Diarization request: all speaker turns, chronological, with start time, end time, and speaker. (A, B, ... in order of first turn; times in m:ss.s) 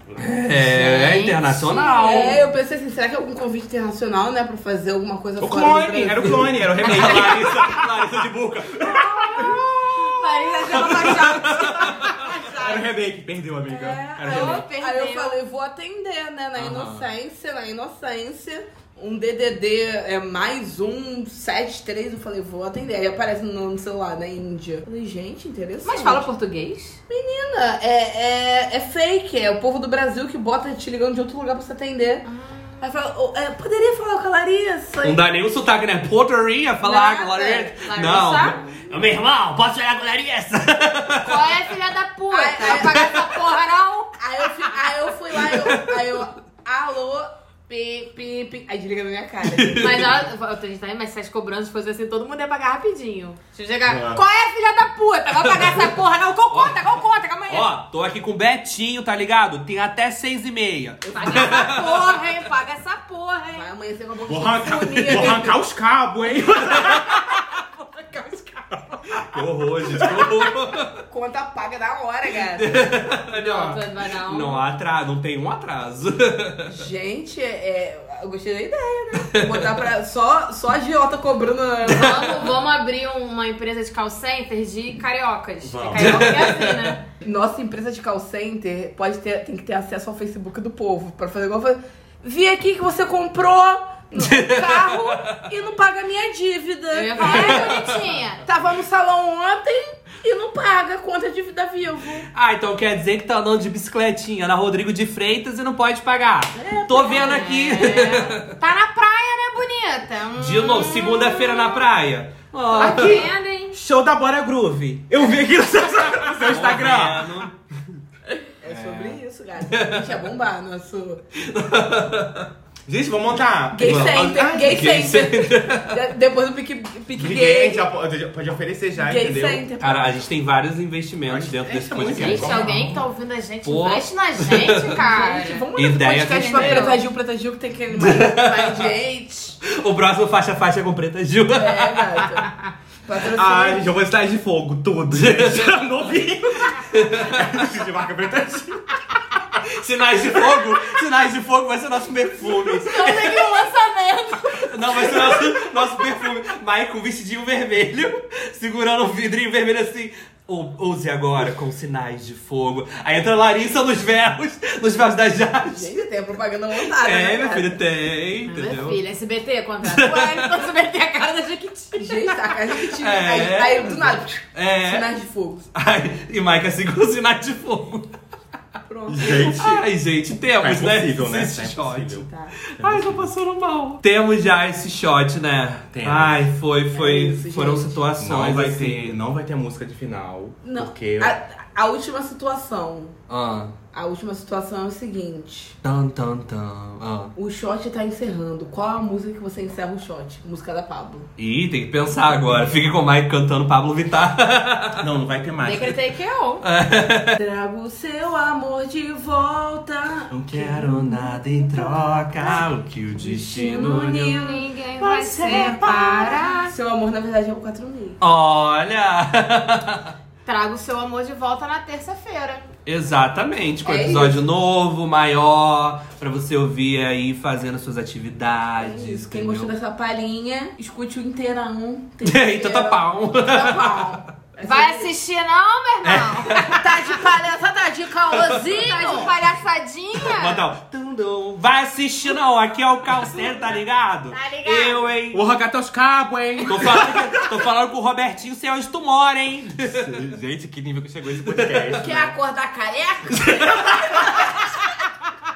0:00.2-0:02.5 A
0:00.6-0:02.4 B
0:02.0-0:07.5 C
0:05.4-0:10.0 D
0:06.8-0:08.9 A
0:08.9-0:13.0 C
0:10.0-0:11.5 B
0:10.6-0:12.3 A
0:12.5-0:14.6 D
0:13.6-0:26.3 C
0:14.2-0:15.4 B
0:16.6-0:17.1 A
0:25.8-0:27.0 B
0:27.1-0:32.2 C
0:32.2-0:32.9 B
0:32.8-0:35.2 C
0:35.0-0:41.5 A
0:36.8-0:38.6 B
0:41.2-0:44.2 B
0:42.3-0:43.2 C
0:42.8-0:43.1 A
0:44.2-0:50.2 C
0:45.3-0:46.2 A
0:49.4-0:50.2 A
0:49.8-0:57.7 B
0:53.9-0:54.2 D
0:55.4-0:55.9 A
0:56.5-1:01.9 A
1:01.1-1:01.7 C
1:01.1-1:03.7 B
1:03.5-1:05.6 C
1:04.2-1:07.2 D
1:07.9-1:08.4 B
1:09.1-1:10.9 A
1:09.4-1:10.5 D
1:11.1-1:13.0 C
1:12.5-1:16.7 A
1:13.3-1:14.6 B
1:16.6-1:22.5 C
1:19.3-1:19.6 A
1:21.9-1:27.0 B
1:25.6-1:26.5 D
1:26.0-1:26.9 A
1:27.2-1:37.7 C
1:34.1-1:35.2 A
1:36.9-1:38.5 B
1:37.2-1:38.0 A
1:38.4-1:42.2 C
1:42.3-1:48.5 A
1:46.6-1:47.4 C
1:47.0-1:51.8 B
1:50.4-1:53.2 A
1:52.8-1:53.8 B
1:52.8-1:57.3 D
1:56.4-1:57.6 A
1:58.6-2:01.2 C
1:58.6-2:00.2 A
2:01.4-2:02.5 A
2:02.9-2:05.0 D
2:03.7-2:07.9 C
2:03.8-2:05.9 A
2:07.1-2:09.6 D
2:09.0-2:10.2 C
2:09.8-2:13.0 A
2:11.3-2:12.9 D
2:12.0-2:17.0 B
2:13.6-2:15.0 A
2:14.9-2:19.6 C
2:15.7-2:16.9 A
2:17.9-2:18.9 A
2:19.6-2:22.3 A
2:21.5-2:22.5 C
2:23.0-2:23.9 C
2:23.2-2:28.8 D
2:25.1-2:25.8 A
2:26.6-2:27.4 A
2:29.8-2:33.5 A
2:32.5-2:35.4 B
2:34.5-2:46.0 A
2:45.7-2:47.8 C
2:46.9-2:49.0 A
2:48.5-2:52.3 B
2:49.8-2:50.5 A
2:52.0-2:55.7 C
2:52.9-2:55.1 A
2:55.7-2:58.1 A
2:58.9-2:59.9 C
2:59.1-2:59.7 D
2:59.3-3:09.2 A
3:00.6-3:02.2 D
3:02.2-3:02.5 C
3:02.8-3:03.3 D
3:05.9-3:06.5 D
3:06.9-3:08.0 C
3:08.2-3:11.4 D
3:10.6-3:13.2 C
3:13.3-3:13.7 A
3:13.9-3:15.8 C
3:15.8-3:17.3 A
3:17.4-3:21.3 C
3:21.4-3:25.0 A
3:25.0-3:26.0 D
3:25.6-3:26.6 B
3:26.6-3:27.4 A
3:27.3-3:34.6 C
3:30.3-3:30.9 D
3:30.5-3:34.5 A
3:34.2-3:36.7 B
3:35.0-3:36.5 A
3:35.4-3:35.9 C
3:36.6-3:38.2 C
3:38.2-3:40.1 A
3:40.4-3:42.7 B
3:42.8-3:49.7 A
3:43.8-3:44.4 C
3:48.8-3:55.1 C
3:52.2-3:54.1 A
3:54.6-3:56.8 B
3:56.0-3:57.2 A
3:56.5-3:59.4 C
3:58.3-3:58.6 A
3:58.5-4:00.7 B
4:00.2-4:05.4 A
4:04.3-4:05.1 B
4:05.3-4:07.5 D
4:06.6-4:10.1 A
4:09.8-4:12.3 D
4:11.4-4:12.0 A
4:12.0-4:14.7 C
4:13.3-4:14.6 A